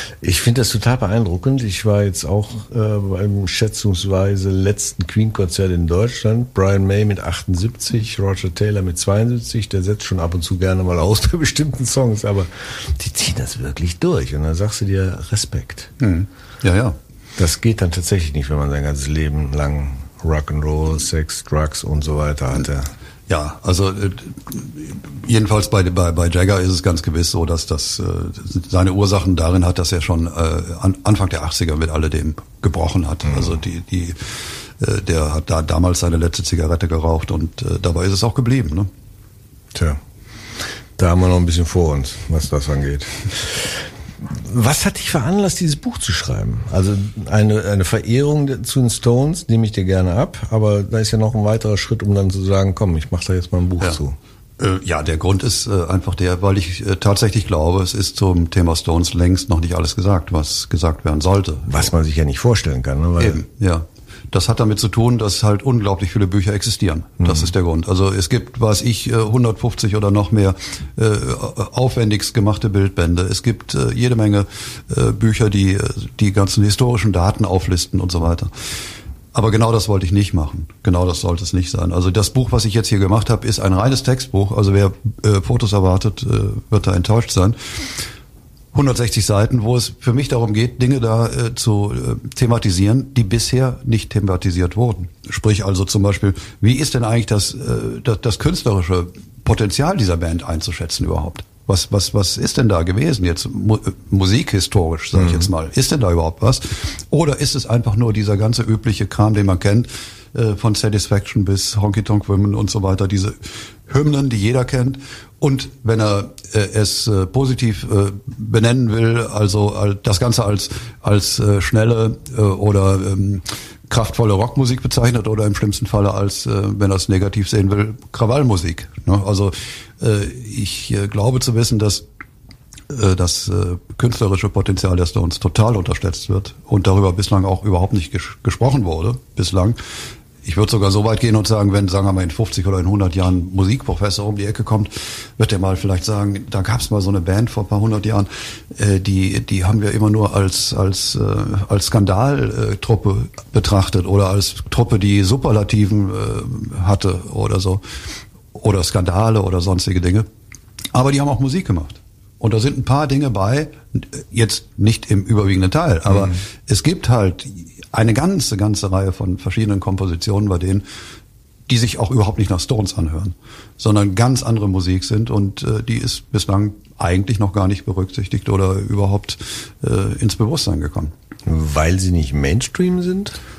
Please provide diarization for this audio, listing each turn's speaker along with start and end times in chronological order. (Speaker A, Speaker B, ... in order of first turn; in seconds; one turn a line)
Speaker A: 0.2-15.9
Speaker B: 16.0-17.0
Speaker A: 17.4-22.9
Speaker B: 23.3-38.9
Speaker A: 39.7-40.0
Speaker A: 40.6-54.2
Speaker B: 54.6-61.9
Speaker A: 61.7-63.4
Speaker B: 63.2-78.5
Speaker B: 79.3-87.8
Speaker B: 88.7-132.0
Speaker B: 132.9-139.8
Speaker B: 140.4-157.8
Speaker B: 158.5-160.3
Speaker B: 160.9-170.8
Speaker B: 171.7-181.1
Speaker A: 181.5-183.4